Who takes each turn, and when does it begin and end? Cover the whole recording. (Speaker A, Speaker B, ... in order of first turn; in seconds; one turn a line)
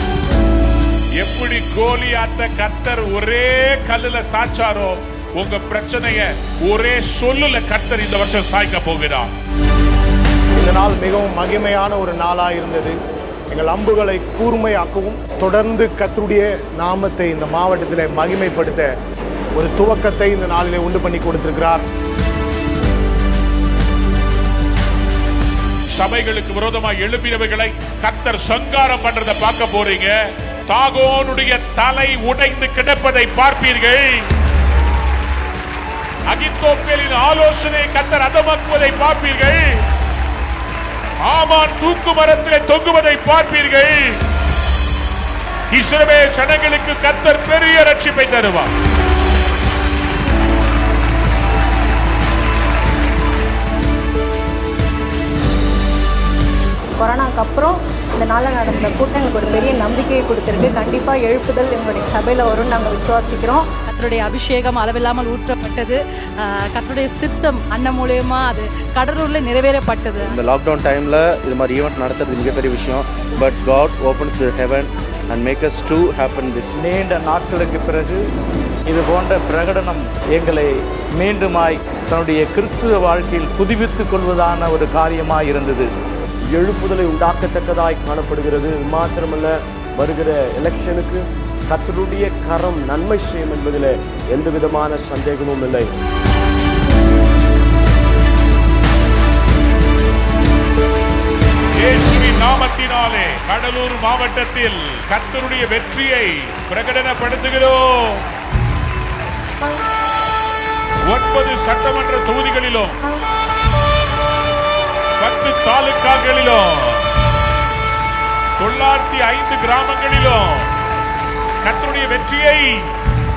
Speaker A: 1.2-9.3
Speaker B: 10.6-12.9
Speaker B: 13.5-18.9
Speaker B: 19.6-21.8
Speaker A: 25.9-30.1
Speaker A: 30.7-34.3
Speaker A: 36.3-39.7
Speaker A: 41.2-44.2
Speaker A: 45.7-48.7
Speaker C: 57.0-63.7
Speaker D: 63.9-70.3
Speaker E: 70.2-76.8
Speaker F: 76.8-78.2
Speaker F: 78.9-85.9
Speaker G: 86.5-95.9
Speaker A: 101.8-108.2
Speaker A: 111.1-113.0
Speaker A: 115.2-117.1
Speaker A: 118.6-120.7
Speaker A: 121.6-122.9